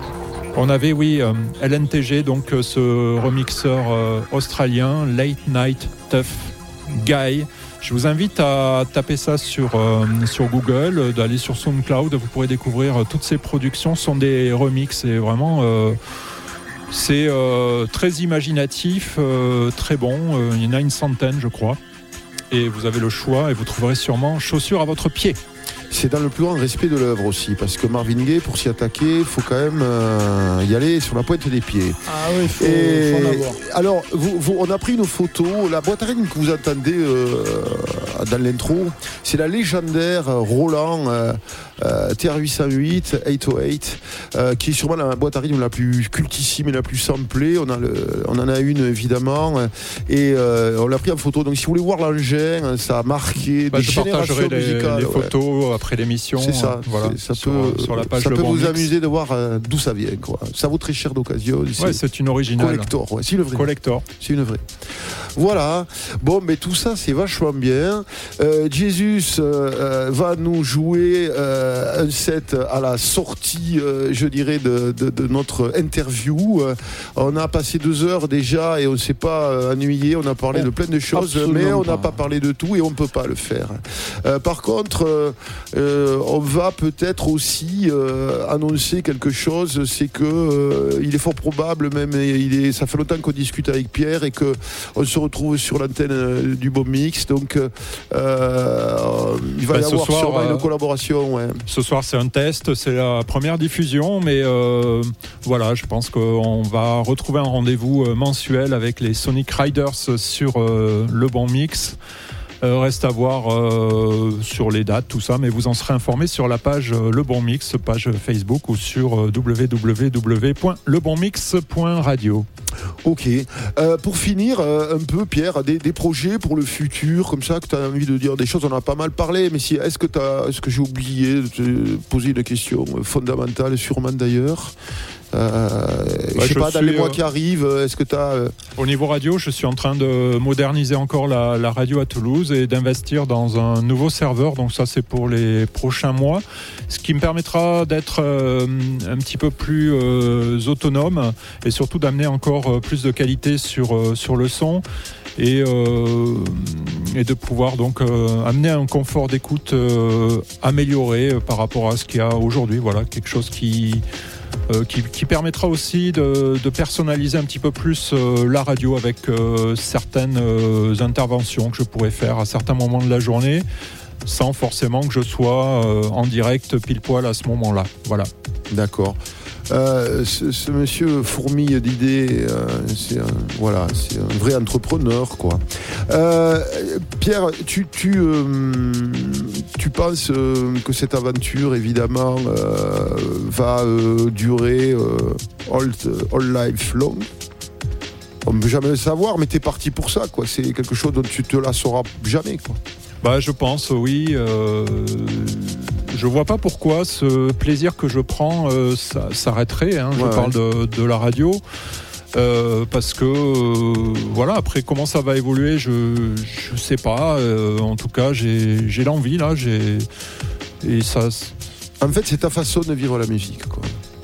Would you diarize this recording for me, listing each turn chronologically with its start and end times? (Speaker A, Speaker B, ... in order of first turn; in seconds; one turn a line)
Speaker A: 0.5-16.0
Speaker A: 16.9-21.8
Speaker A: 22.5-25.4
Speaker B: 25.9-32.0
Speaker C: 32.1-33.6
Speaker B: 32.6-55.3
Speaker A: 53.7-58.9
Speaker B: 56.4-62.0
Speaker A: 61.8-62.9
Speaker B: 62.6-101.6
Speaker A: 63.5-64.0
Speaker C: 80.5-82.2
Speaker A: 99.7-100.7
Speaker A: 101.7-112.0
Speaker A: 112.6-122.5
Speaker B: 123.0-134.8
Speaker B: 135.3-138.6
Speaker A: 136.4-137.2
Speaker A: 138.8-154.8
Speaker A: 155.4-164.0
Speaker A: 164.7-173.7
Speaker A: 174.3-178.3
Speaker B: 178.7-197.3
Speaker B: 198.4-202.8
Speaker A: 203.2-211.6
Speaker B: 210.2-210.6
Speaker A: 212.3-220.1
Speaker A: 220.8-221.5
Speaker B: 222.0-224.0